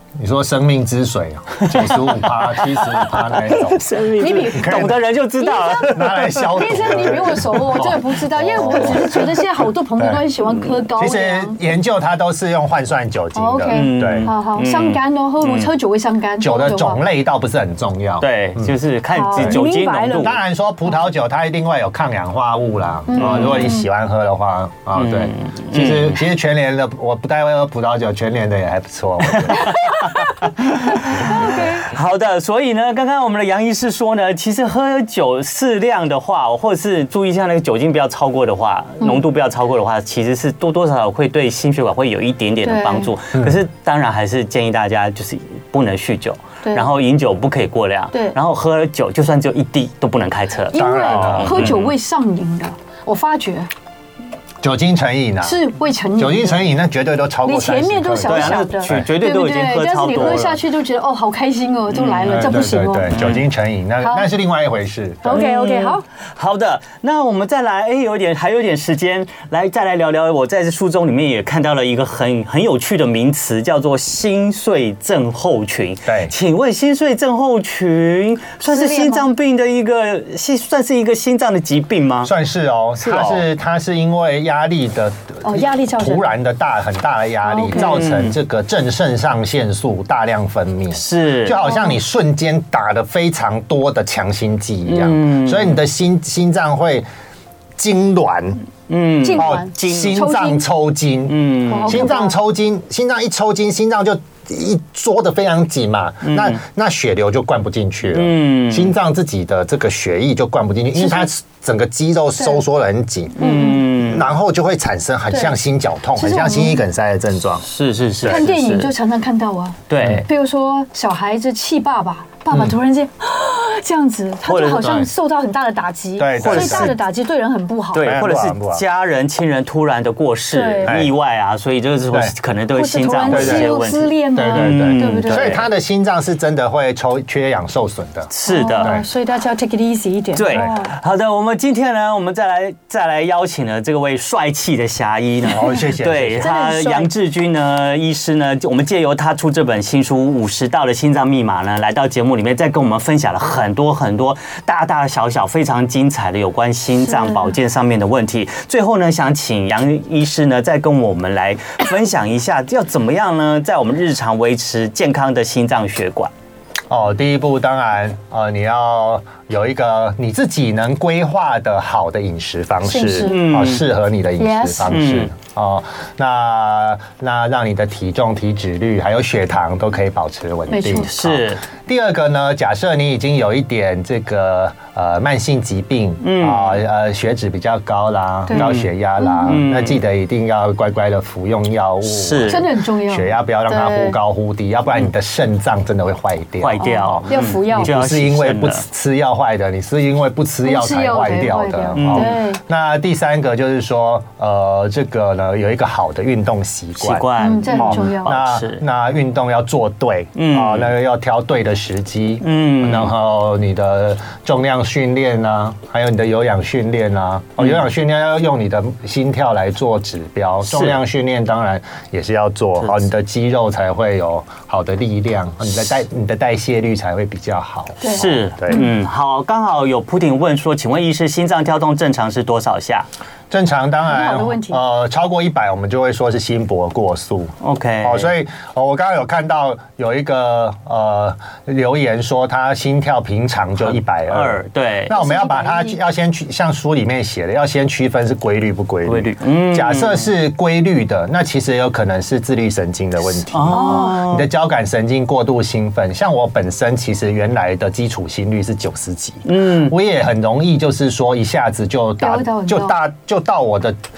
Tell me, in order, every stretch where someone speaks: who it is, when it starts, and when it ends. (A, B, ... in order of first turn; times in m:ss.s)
0:00.2-0:05.0 A
0:01.6-0:09.4 B
0:04.2-0:11.6 C
0:05.9-0:09.2 A
0:10.0-0:10.2 A
0:11.0-0:14.3 A
0:13.3-0:17.0 C
0:13.7-0:15.7 B
0:16.4-0:18.7 A
0:18.2-0:20.4 B
0:19.1-0:20.4 C
0:19.3-0:19.6 A
0:20.2-0:30.4 A
0:23.1-0:23.8 C
0:23.2-0:23.7 B
0:24.9-0:26.2 B
0:29.2-0:51.9 B
0:30.9-0:31.9 C
0:31.2-0:31.6 A
0:42.6-0:43.1 C
0:50.7-0:53.7 C
0:50.7-0:51.8 A
0:54.6-0:55.6 A
0:55.4-0:56.6 C
0:56.2-0:59.0 A
0:57.4-1:03.1 C
0:58.2-1:00.6 B
1:01.9-1:03.4 B
1:02.2-1:05.4 A
1:04.0-1:04.3 C
1:05.2-1:06.0 C
1:05.3-1:22.3 B
1:16.0-1:16.3 A
1:18.7-1:19.3 C
1:22.2-1:37.0 A
1:23.0-1:23.4 B
1:25.4-1:26.3 C
1:27.4-1:28.0 C
1:27.7-1:28.3 B
1:30.9-1:31.6 B
1:31.5-1:32.0 C
1:34.9-1:35.8 B
1:37.8-1:38.6 A
1:38.9-1:40.2 B
1:39.2-1:40.6 C
1:39.4-1:53.4 A
1:41.3-1:42.1 B
1:41.7-1:42.4 C
1:46.2-1:46.6 B
1:48.1-1:48.9 B
1:51.0-1:51.3 C
1:53.4-1:54.3 B
1:53.4-1:54.0 C
1:53.9-1:57.6 A
1:56.2-1:56.8 C
1:57.6-1:58.9 B
1:58.2-1:58.5 A
1:58.2-2:08.1 C
1:59.9-2:00.2 B
2:02.5-2:02.7 A
2:04.4-2:05.1 B
2:06.2-2:07.0 A
2:06.4-2:07.0 B
2:07.9-2:15.6 B
2:08.0-2:08.8 A
2:10.5-2:10.9 C
2:10.8-2:11.1 A
2:12.7-2:15.6 C
2:13.3-2:13.8 A
2:14.3-2:18.3 A
2:18.3-2:18.9 B
2:18.4-2:20.9 C
2:18.8-2:19.0 A
2:20.3-2:46.3 B
2:25.5-2:26.5 A
2:26.4-2:27.1 C
2:37.1-2:37.5 C
2:46.9-3:48.9 A
2:52.8-2:53.6 C
2:53.2-2:53.8 B
2:54.4-2:54.9 C
2:54.8-2:55.3 B
3:00.7-3:01.1 C
3:00.9-3:01.6 B
3:06.2-3:06.8 B
3:08.5-3:09.5 C
3:08.5-3:08.9 B
3:09.4-3:10.0 B
3:12.0-3:12.6 B
3:12.4-3:14.2 C
3:16.6-3:18.8 B
3:16.8-3:17.9 C
3:20.6-3:22.6 C
3:22.0-3:22.4 B
3:27.0-3:28.8 B
3:27.4-3:28.3 C
3:30.4-3:30.9 B
3:32.4-3:33.1 B
3:40.6-3:41.0 B
3:48.0-3:48.9 C
3:48.1-3:53.1 B
3:53.5-4:24.0 A
3:54.1-3:54.8 C
3:57.6-3:58.3 B
4:03.9-4:05.1 B
4:05.1-4:06.0 C
4:09.0-4:10.3 B
4:13.5-4:14.5 B
4:13.7-4:14.2 C
4:19.4-4:19.9 B
4:22.2-4:23.0 C